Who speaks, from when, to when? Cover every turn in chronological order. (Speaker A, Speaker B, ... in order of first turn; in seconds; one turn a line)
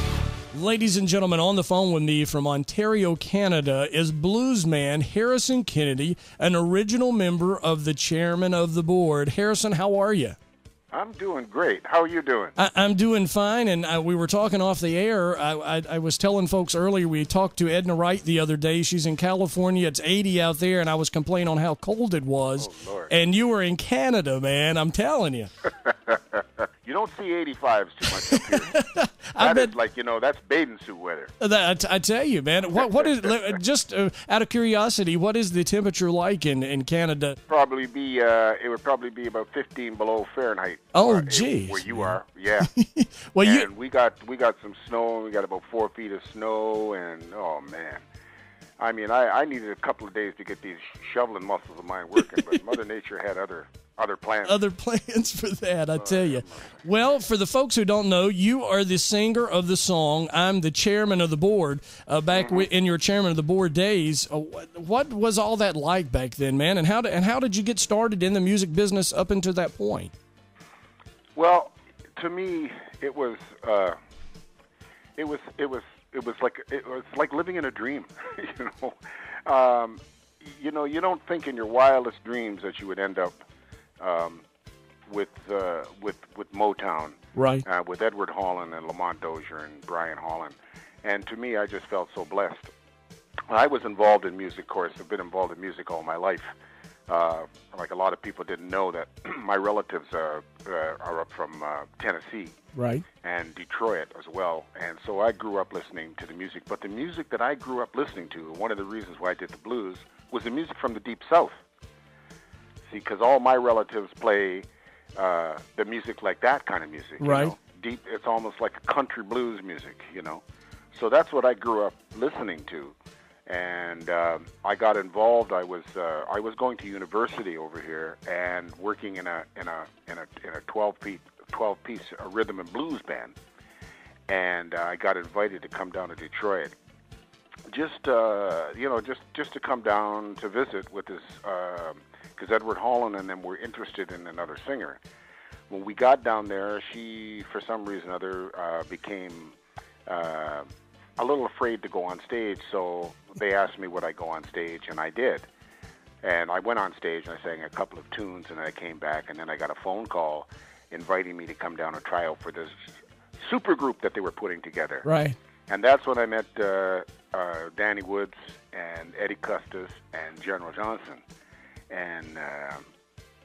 Speaker A: 0.5-10.4
Speaker B: 10.9-12.6
Speaker A: 12.6-25.5
Speaker B: 22.6-23.1
Speaker B: 25.8-28.8
Speaker A: 28.3-29.7
Speaker B: 29.4-31.3
Speaker A: 31.4-37.4
Speaker B: 33.0-33.3
Speaker B: 37.5-42.7
Speaker A: 40.9-43.7
Speaker B: 43.4-48.0
Speaker B: 48.8-54.6
Speaker A: 54.4-70.1
Speaker B: 56.0-56.8
Speaker B: 62.3-62.7
Speaker B: 71.3-74.0
Speaker B: 75.2-83.3
Speaker B: 84.0-84.4
Speaker B: 85.1-92.7
Speaker A: 87.3-87.6
Speaker B: 93.5-96.5
Speaker B: 97.1-102.6
Speaker A: 102.8-103.0
Speaker B: 103.2-111.6
Speaker B: 112.9-123.0
Speaker A: 117.2-117.5
Speaker B: 123.5-133.3
Speaker B: 134.3-136.8
Speaker B: 137.7-145.0
Speaker B: 145.7-150.7
Speaker B: 151.2-155.5
Speaker B: 156.2-162.8
Speaker B: 163.4-165.1
Speaker A: 165.1-165.3
Speaker B: 165.7-171.2
Speaker B: 171.9-172.8